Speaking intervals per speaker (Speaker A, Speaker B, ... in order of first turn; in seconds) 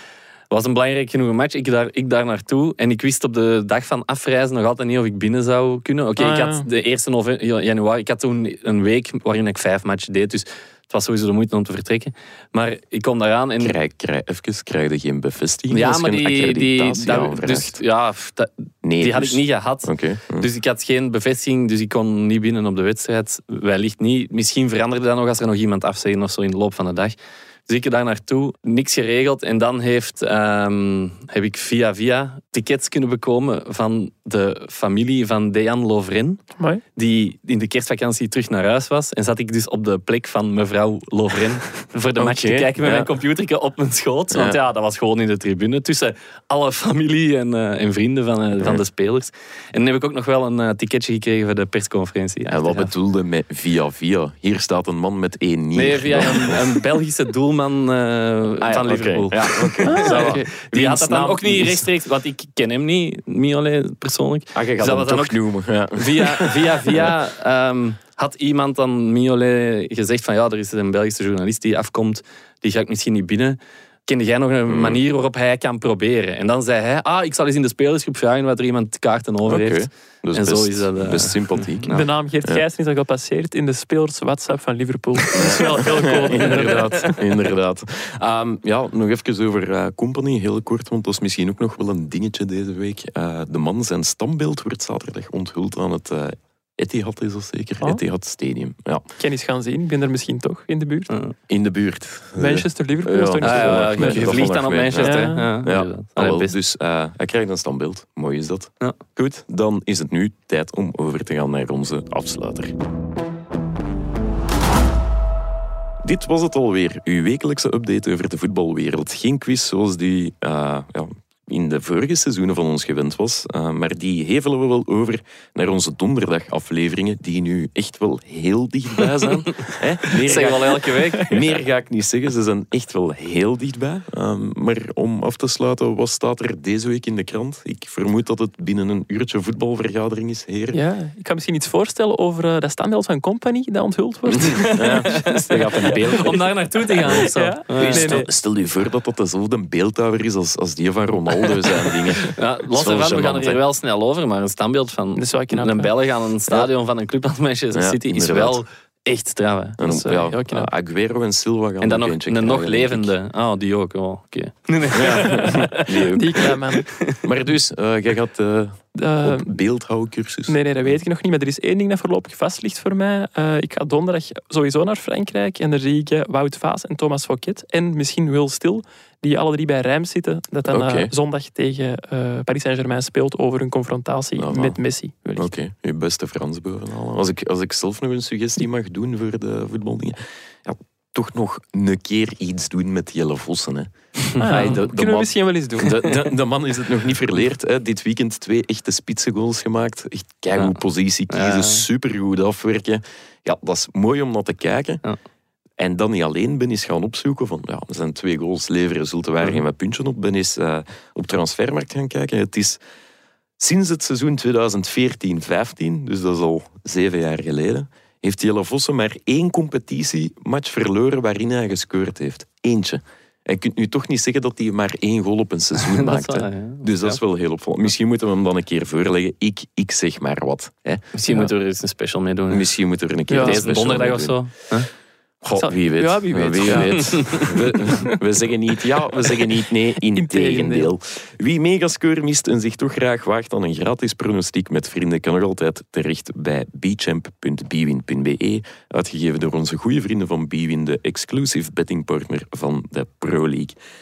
Speaker A: 0.5-13.8, 15.7-36.4, 37.0-52.9, 55.7-65.4, 65.9-82.1, 86.4-86.7, 103.4-106.5, 130.1-131.4, 144.8-145.4, 146.1-148.2, 151.9-159.8, 161.8-167.2, 200.6-201.8, 225.8-227.2, 231.1-232.7, 233.3-234.9, 236.6-237.4
Speaker B: 6.2-6.7, 59.8-60.5, 81.9-87.2, 99.2-101.1, 102.3-104.4, 105.0-105.5, 140.7-146.0, 147.1-148.3, 155.2-155.9, 159.8-160.7, 166.1-166.9, 168.9-169.5, 170.5-185.5, 194.4-196.3, 233.3-233.6, 235.5-237.9, 240.1-240.9
Speaker C: 13.6-17.8, 18.8-20.5, 42.2-43.1, 52.5-56.6, 58.6-61.9, 64.5-67.1, 74.7-75.0, 79.5-82.6, 85.3-99.1, 101.5-112.7, 116.0-140.8, 144.3-146.5, 147.1-153.6, 157.7-158.6, 159.8-163.1, 164.9-166.5, 167.2-170.9, 180.7-181.1, 184.4-184.8, 185.3-205.0, 205.8-212.8, 213.6-231.1, 232.5-234.7, 235.4-253.8